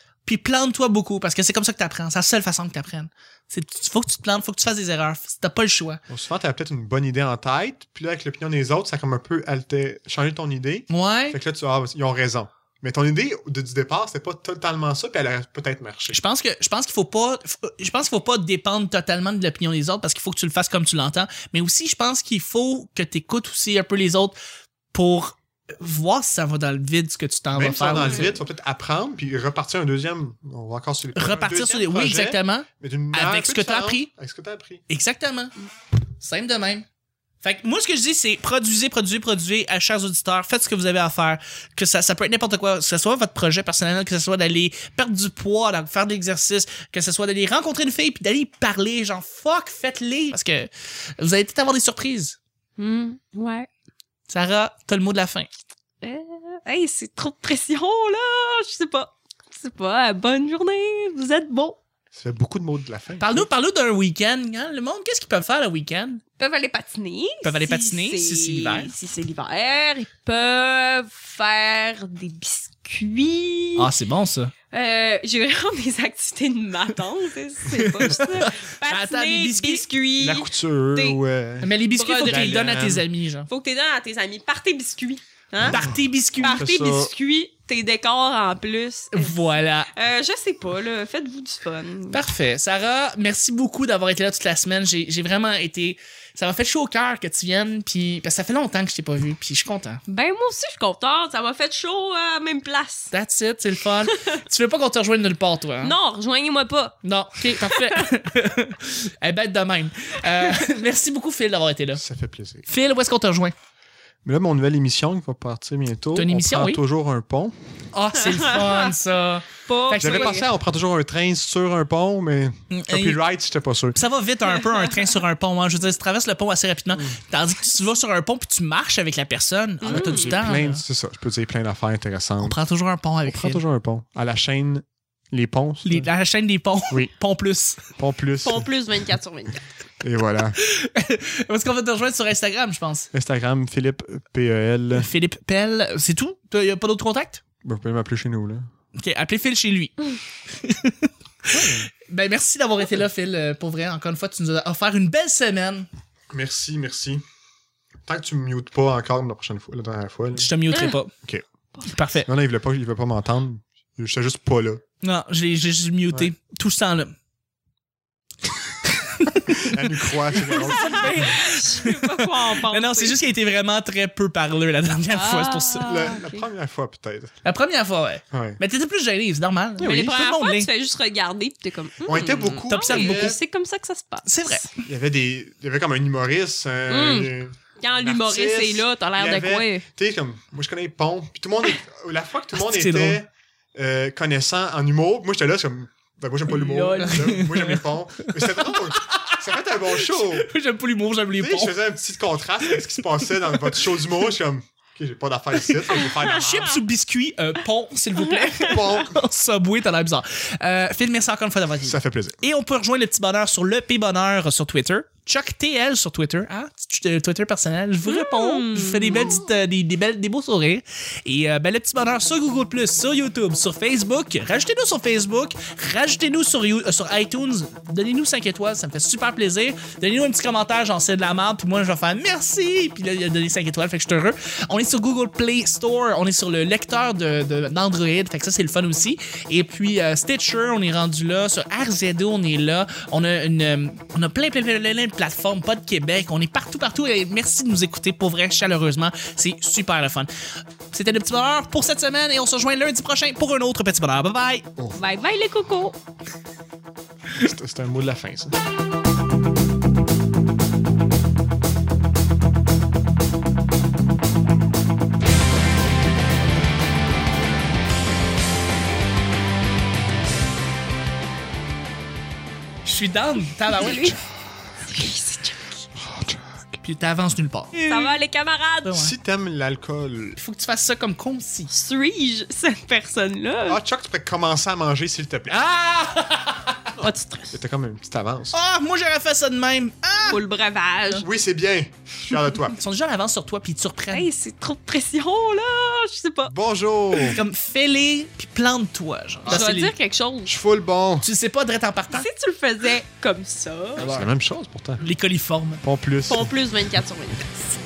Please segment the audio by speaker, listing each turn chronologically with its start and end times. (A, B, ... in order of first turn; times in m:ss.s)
0:00.2-0:06.0 A
0:06.1-0:16.2 B
0:10.9-0:11.4 A
0:16.1-0:24.4 A
0:24.9-0:28.3 A
0:27.5-0:34.8 B
0:27.9-0:28.2 C
0:31.1-0:34.1 A
0:34.9-0:35.5 A
0:36.2-0:36.9 A
0:37.4-0:52.4 A
0:52.8-0:53.7 C
0:54.3-0:55.5 A
0:56.0-1:01.8 C
1:02.1-1:03.5 B
1:03.2-1:06.2 A
1:06.4-1:13.9 C
1:07.4-1:08.9 A
1:13.8-1:14.5 A
1:14.7-1:21.2 C
1:17.8-1:19.9 A
1:20.2-1:23.0 B
1:21.6-1:23.5 A
1:22.0-1:22.8 C
1:23.5-1:32.2 C
1:25.6-1:27.1 B
1:25.6-1:26.6 A
1:29.1-1:29.9 A
1:32.1-1:40.0 A
1:40.1-1:43.1 C
1:43.1-1:46.0 A
1:45.8-1:47.0 C
1:47.0-1:52.0 A
1:47.5-1:48.0 C
1:52.0-1:52.7 B
1:52.7-1:53.5 A
1:54.2-1:57.6 B
1:56.1-1:56.8 A
1:57.9-2:00.4 A
1:58.2-1:58.9 C
1:59.6-2:00.5 C
2:00.0-2:04.0 B
2:02.7-2:03.2 A
2:03.9-2:10.8 A
2:06.9-2:07.2 B
2:09.8-2:10.5 C
2:09.9-2:12.6 B
2:12.4-2:13.6 A
2:13.2-2:16.1 B
2:15.8-2:17.9 A
2:17.9-2:18.7 B
2:18.4-2:19.6 C
2:20.0-2:20.6 B
2:20.6-2:23.1 A
2:23.1-2:25.1 B
2:24.9-2:27.4 A
2:27.6-2:28.7 B
2:29.0-2:30.0 A
2:30.5-2:35.9 A
2:31.5-2:31.9 B
2:36.3-2:37.2 B
2:38.0-2:40.5 B
2:40.4-2:41.1 A
2:41.8-2:42.3 A
2:42.2-2:44.8 B
2:45.0-2:47.1 A
2:49.2-2:49.7 A
2:49.5-2:51.4 B
2:50.3-2:56.2 A
2:50.6-2:53.2 C
2:55.1-2:56.5 C
2:55.8-2:57.4 B
2:57.4-3:00.7 A
2:58.3-2:58.6 B
2:59.8-3:00.1 B
2:59.8-3:04.7 C
3:02.0-3:03.4 B
3:02.7-3:03.4 A
3:04.2-3:04.7 A
3:04.8-3:20.5 B
3:06.9-3:09.8 C
3:12.5-3:13.2 A
3:16.5-3:21.8 A
3:21.4-3:26.8 B
3:25.9-4:10.3 A
3:28.2-3:28.8 C
3:28.6-3:29.2 B
3:31.8-3:32.4 B
3:38.0-3:39.4 C
4:10.9-4:14.7 A
4:14.9-4:16.0 C
4:17.3-4:18.6 B
4:32.8-4:34.2 A
4:33.7-4:34.2 C
4:34.8-4:35.8 C
4:36.0-4:36.8 B
4:36.8-4:38.1 A
4:37.8-4:39.0 C
4:38.8-4:39.1 A
4:38.9-4:40.4 B
4:40.4-4:41.7 A
4:41.7-4:43.8 C
4:43.7-4:45.7 B
4:45.6-4:46.8 A
4:47.0-4:48.5 B
4:47.0-4:47.6 C
4:48.5-4:50.4 A
4:50.2-4:51.3 C
4:51.2-4:52.8 B
4:52.8-4:54.3 A
4:54.1-4:56.5 C
4:56.4-4:57.4 B
4:57.3-4:59.9 A
4:59.5-5:00.5 C
5:00.4-5:01.2 B
5:01.2-5:02.3 A
5:02.1-5:04.2 C
5:04.0-5:04.3 A
5:04.0-5:05.0 B
5:05.0-5:05.8 A
5:05.8-5:06.5 B
5:06.3-5:07.8 C